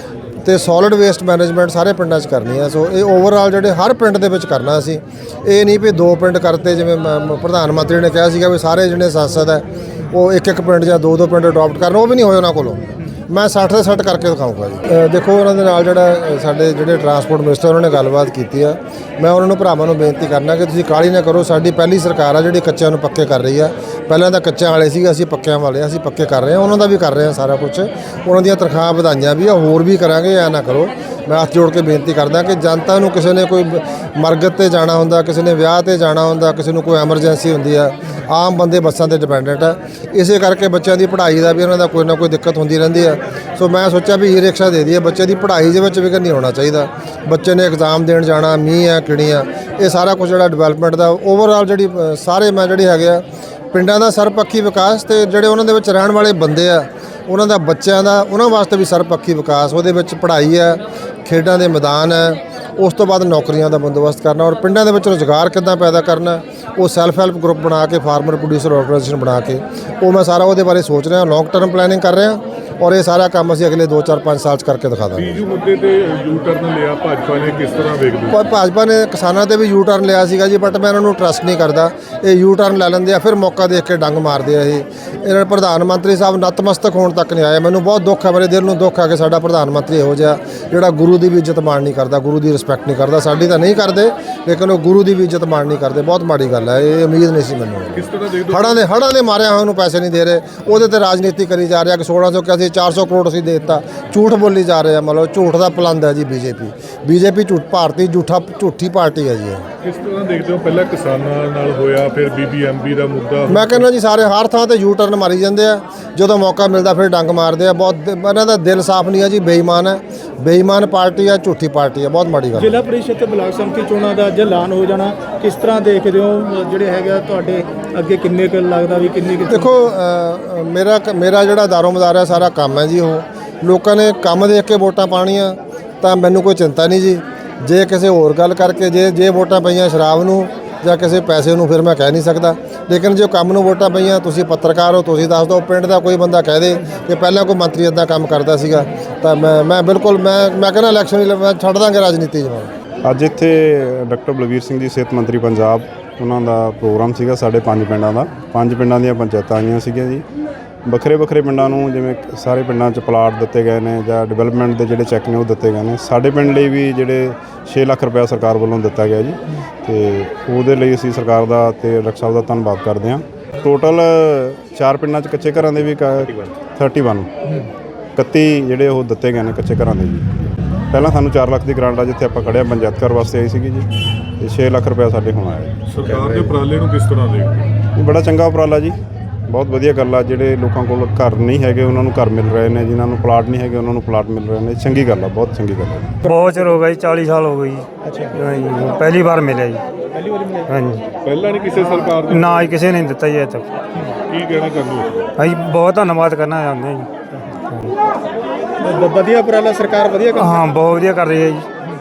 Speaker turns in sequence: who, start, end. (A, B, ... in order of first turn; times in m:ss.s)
0:00.4-1:15.4 A
1:15.2-1:18.4 B
1:18.3-1:49.6 A
1:37.9-1:38.8 B
1:49.8-1:53.8 B
1:53.5-2:02.8 A
2:02.5-2:09.7 C
2:09.5-2:32.7 A
2:33.0-2:40.2 D
2:40.8-2:57.3 D
2:58.2-3:00.3 D
3:00.9-3:03.9 D
3:04.4-3:05.7 D
3:05.9-3:07.6 B
3:08.0-3:09.0 D
3:09.5-3:16.2 D
3:16.3-3:19.8 E
3:18.1-3:18.4 C
3:20.1-3:20.7 C
3:20.7-3:21.1 E
3:21.2-3:22.7 B
3:22.3-3:23.7 E
3:24.2-3:25.3 B
3:25.4-3:27.1 E
3:27.7-3:27.9 E
3:28.8-3:30.6 C
3:30.4-3:31.6 E